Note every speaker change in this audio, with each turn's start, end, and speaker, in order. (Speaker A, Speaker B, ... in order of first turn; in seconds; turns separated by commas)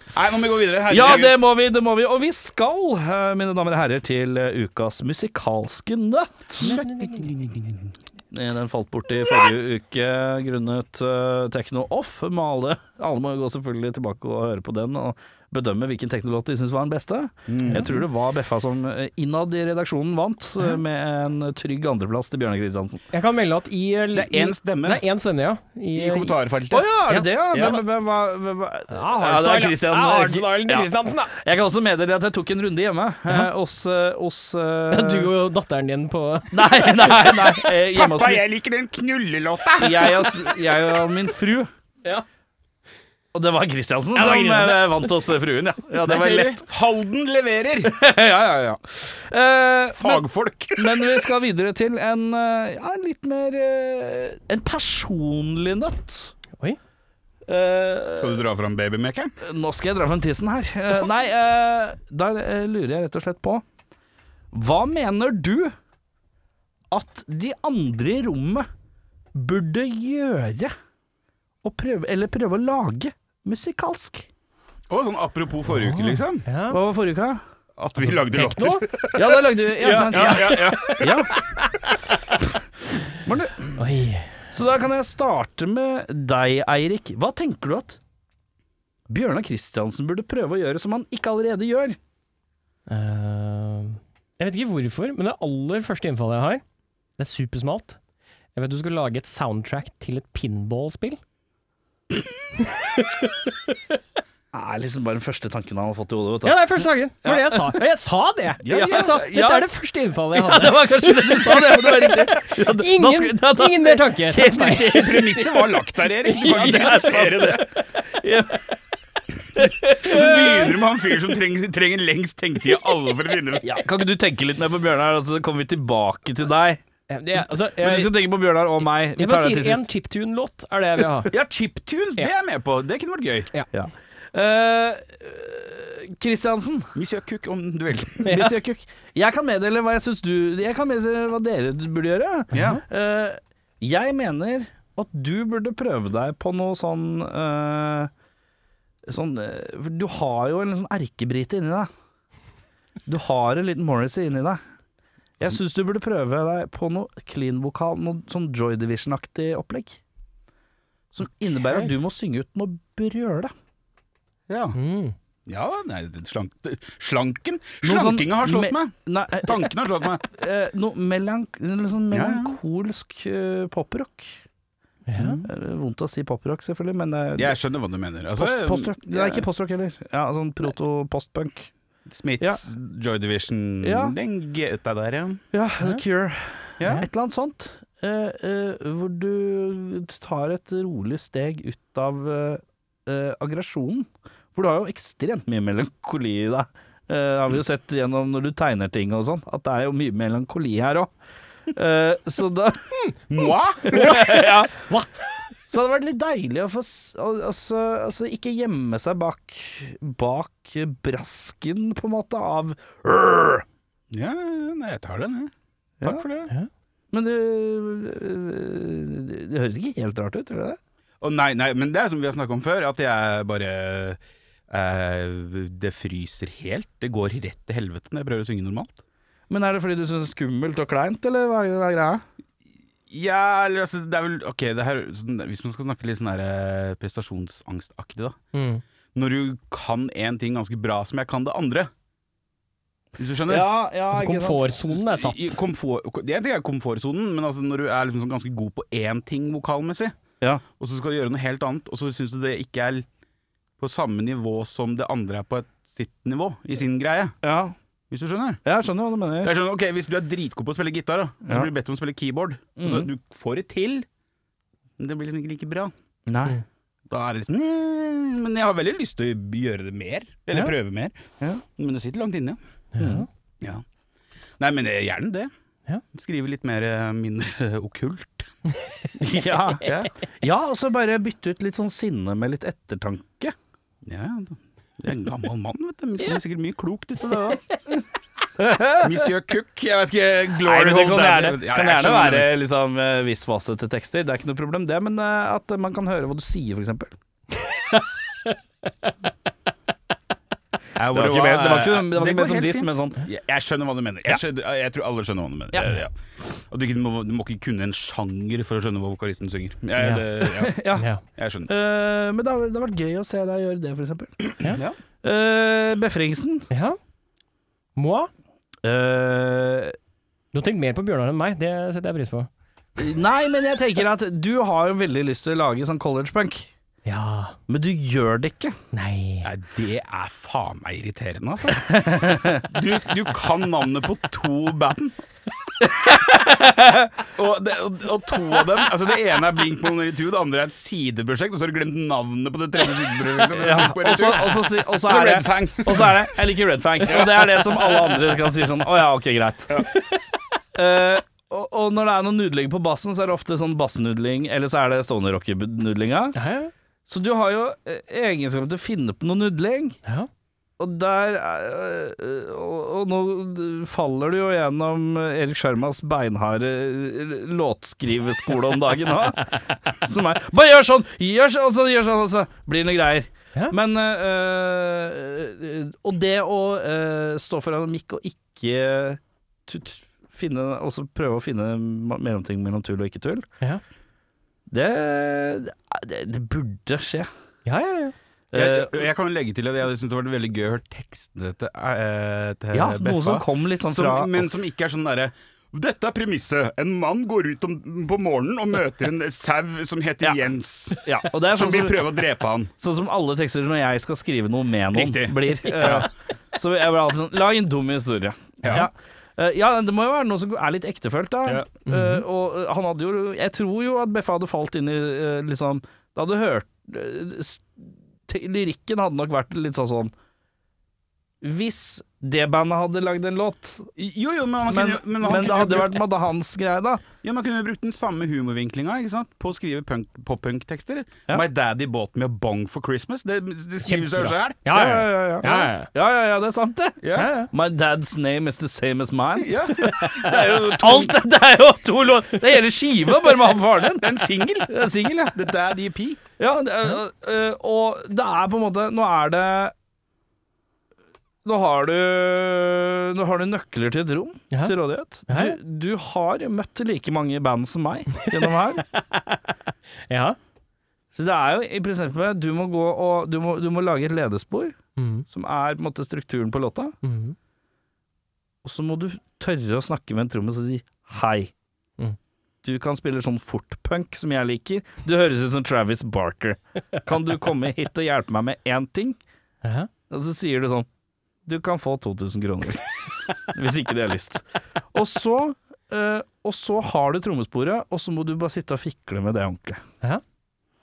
Speaker A: 0.1-1.4, Speaker B: 0.9-6.7, Speaker A: 6.6-8.0, Speaker C: 6.6-7.3, Speaker B: 8.3-23.0, Speaker A: 17.5-17.9, Speaker C: 23.1-26.4, Speaker A: 24.1-25.0, Speaker A: 25.9-26.9, Speaker B: 26.7-35.3, Speaker A: 27.5-27.8, Speaker C: 28.9-31.3, Speaker C: 34.9-37.5, Speaker B: 36.5-38.4, Speaker A: 37.9-40.4, Speaker B: 39.8-41.7, Speaker B: 43.3-46.6, Speaker C: 44.1-45.1, Speaker A: 46.0-47.9, Speaker B: 47.8-56.4, Speaker A: 50.0-51.2, Speaker B: 57.5-58.4, Speaker A: 58.2-59.3, Speaker B: 59.4-63.6, Speaker B: 64.5-65.7, Speaker B: 66.9-68.7, Speaker B: 69.3-70.7, Speaker B: 71.6-74.3, Speaker A: 74.9-76.5, Speaker C: 75.7-76.8, Speaker B: 76.7-77.4, Speaker A: 77.8-81.3, Speaker C: 78.0-78.9, Speaker B: 79.1-81.4, Speaker C: 80.0-82.0, Speaker B: 83.1-83.8, Speaker C: 83.8-84.5, Speaker B: 84.5-88.0, Speaker B: 89.1-92.0, Speaker C: 92.9-96.6, Speaker C: 97.2-98.0, Speaker C: 98.5-101.2, Speaker C: 102.6-103.7, Speaker B: 104.5-107.7, Speaker C: 106.4-115.5, Speaker A: 108.6-109.2, Speaker B: 108.7-109.7, Speaker B: 110.3-115.6, Speaker A: 114.8-117.7, Speaker B: 116.2-118.7, Speaker C: 116.3-117.0, Speaker B: 119.5-120.8, Speaker A: 119.9-123.7, Speaker B: 123.6-126.8, Speaker C: 127.1-128.2, Speaker B: 127.8-129.8, Speaker C: 129.2-131.3, Speaker A: 131.3-133.5, Speaker B: 133.7-136.9, Speaker A: 136.9-138.4, Speaker C: 138.2-138.6, Speaker B: 138.2-148.1, Speaker A: 142.5-142.8, Speaker C: 142.5-142.8, Speaker B: 149.1-151.9, Speaker B: 153.1-154.6, Speaker B: 155.4-160.0, Speaker B: 161.1-163.5, Speaker A: 164.5-164.8, Speaker C: 164.8-165.2, Speaker A: 165.5-170.3, Speaker B: 167.8-169.7, Speaker B: 170.2-174.4, Speaker A: 172.1-172.6, Speaker C: 175.1-175.4, Speaker B: 175.2-177.6, Speaker A: 177.4-179.5, Speaker B: 178.4-181.7, Speaker A: 182.1-185.4, Speaker B: 183.8-184.2, Speaker B: 185.5-201.1, Speaker A: 186.8-187.1, Speaker B: 201.7-202.9, Speaker A: 203.3-204.2, Speaker B: 203.8-204.9, Speaker C: 203.9-205.3, Speaker B: 205.7-213.7, Speaker A: 214.1-216.5, Speaker B: 217.1-220.8, Speaker A: 221.2-229.0, Speaker B: 229.5-232.2, Speaker A: 233.1-238.4, Speaker C: 238.5-238.8, Speaker A: 239.2-241.9, Speaker A: 243.2-243.7, Speaker B: 243.5-244.8, Speaker C: 244.1-245.6, Speaker A: 245.1-250.2, Speaker A: 250.7-253.1, Speaker A: 253.8-257.4, Speaker B: 257.4-257.8, Speaker A: 258.1-258.6, Speaker B: 258.6-259.5, Speaker A: 259.4-264.1, Speaker B: 262.8-263.1, Speaker A: 265.0-265.9, Speaker B: 266.3-266.6, Speaker A: 267.1-271.2, Speaker A: 271.8-272.6, Speaker C: 272.9-273.3, Speaker B: 273.0-273.3, Speaker A: 274.6-275.5, Speaker A: 276.1-278.5, Speaker B: 279.2-283.5, Speaker A: 279.8-280.1, Speaker A: 284.0-287.7, Speaker B: 288.6-289.3, Speaker A: 289.0-292.5, Speaker B: 290.6-297.1, Speaker C: 297.7-298.5, Speaker A: 301.0-310.8, Speaker B: 301.1-303.2, Speaker C: 310.0-310.3, Speaker B: 310.6-311.1, Speaker C: 311.0-311.2, Speaker A: 311.4-311.7, Speaker B: 311.7-314.5, Speaker A: 314.7-315.0, Speaker B: 315.2-316.7, Speaker C: 316.7-317.0, Speaker C: 318.0-318.3, Speaker B: 318.8-320.0, Speaker C: 320.5-322.5, Speaker B: 323.0-326.7, Speaker C: 327.0-327.6, Speaker B: 327.7-328.8, Speaker C: 328.9-329.5, Speaker A: 329.4-335.2, Speaker B: 331.8-332.7, Speaker B: 335.8-337.2, Speaker A: 337.3-346.3, Speaker B: 343.5-349.9, Speaker A: 347.1-347.9, Speaker B: 350.8-356.4, Speaker C: 356.4-356.7, Speaker B: 357.1-360.0, Speaker B: 360.8-383.5, Speaker B: 384.7-387.3, Speaker C: 387.7-388.1, Speaker B: 388.5-389.0, Speaker A: 388.5-402.7, Speaker B: 392.7-394.5, Speaker B: 401.0-402.1, Speaker B: 402.8-420.1, Speaker A: 404.9-406.1, Speaker A: 408.6-408.9, Speaker C: 411.9-412.2, Speaker B: 421.4-423.9, Speaker A: 424.0-426.0, Speaker B: 424.7-427.0, Speaker A: 427.2-434.6, Speaker C: 433.9-435.9, Speaker B: 434.7-437.0, Speaker A: 437.0-437.3, Speaker C: 437.1-437.5, Speaker B: 437.5-445.4, Speaker A: 439.4-441.2, Speaker A: 443.9-446.2, Speaker B: 446.4-449.7, Speaker B: 451.4-458.9, Speaker C: 455.3-455.6, Speaker C: 458.2-459.4, Speaker C: 460.1-460.4, Speaker B: 461.1-464.8, Speaker C: 465.0-465.2, Speaker B: 465.3-466.9, Speaker C: 467.0-467.4, Speaker B: 468.6-471.5, Speaker B: 472.6-479.2, Speaker C: 479.6-479.9, Speaker B: 480.1-480.9, Speaker B: 481.4-489.8